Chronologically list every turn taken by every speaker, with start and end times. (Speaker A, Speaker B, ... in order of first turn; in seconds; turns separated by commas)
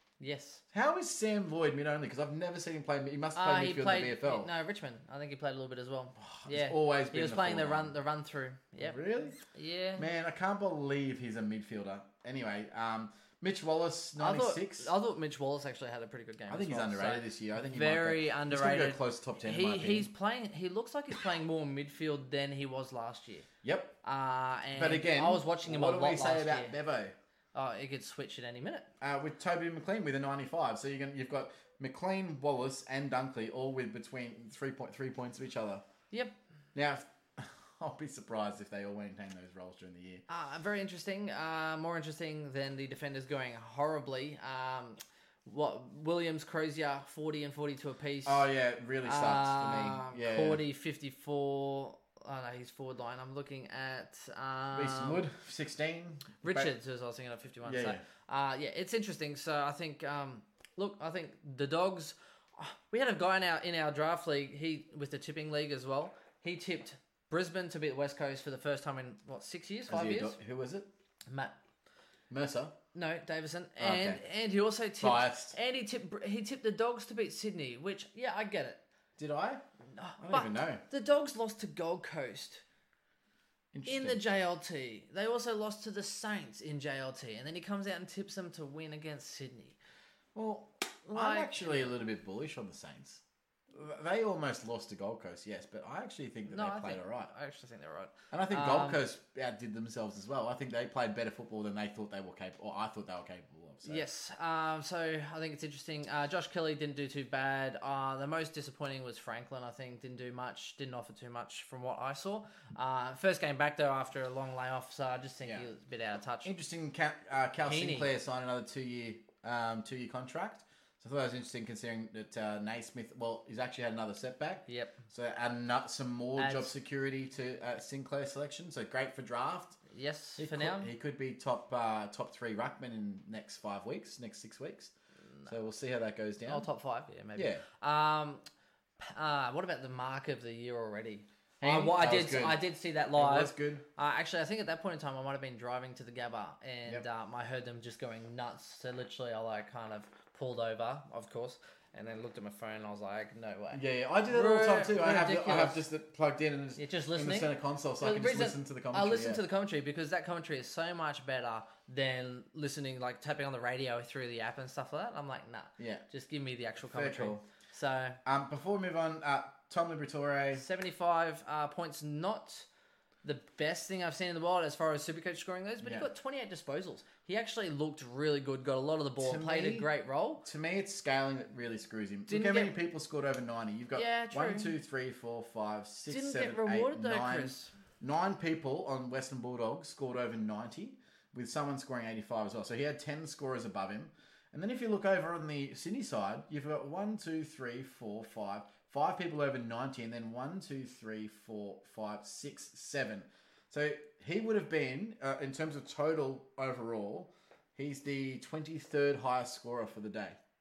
Speaker A: 0.2-0.6, Speaker B: 0.7-4.5, Speaker A: 3.4-10.1, Speaker B: 6.2-8.0, Speaker B: 8.8-9.4, Speaker B: 10.0-14.9, Speaker A: 14.2-23.5, Speaker B: 16.5-20.1, Speaker B: 23.6-23.9, Speaker A: 24.0-26.8, Speaker B: 24.8-27.1, Speaker A: 27.6-28.9, Speaker B: 29.0-35.8, Speaker B: 36.8-40.2, Speaker A: 40.3-48.5, Speaker B: 48.2-50.6, Speaker A: 49.0-55.2, Speaker B: 54.7-56.7, Speaker A: 56.4-70.4, Speaker B: 57.6-58.0, Speaker B: 69.9-70.9, Speaker A: 71.3-71.5, Speaker B: 72.3-72.8, Speaker A: 72.9-78.8, Speaker B: 73.8-74.2, Speaker B: 75.0-75.6, Speaker B: 79.2-79.6, Speaker A: 79.9-82.6, Speaker B: 80.2-80.8, Speaker B: 83.7-84.2, Speaker A: 83.8-89.8, Speaker B: 90.3-97.3, Speaker A: 91.1-92.0, Speaker A: 96.5-99.0, Speaker B: 98.3-104.0, Speaker A: 103.8-116.5, Speaker B: 116.4-129.8, Speaker A: 117.7-118.1, Speaker A: 124.7-125.0, Speaker A: 126.4-126.7, Speaker A: 129.9-130.9, Speaker B: 130.4-134.9, Speaker B: 135.5-136.7, Speaker A: 136.5-138.4, Speaker B: 137.4-137.6, Speaker A: 139.0-155.8, Speaker B: 141.6-142.6, Speaker B: 143.1-143.8, Speaker B: 153.7-159.4, Speaker A: 156.8-168.2, Speaker B: 166.8-167.4, Speaker B: 168.2-170.7, Speaker A: 170.6-172.7, Speaker A: 173.2-180.4, Speaker B: 175.8-176.1, Speaker B: 179.2-179.9, Speaker B: 180.4-210.4, Speaker A: 182.3-182.8, Speaker A: 183.9-184.8, Speaker A: 186.1-187.7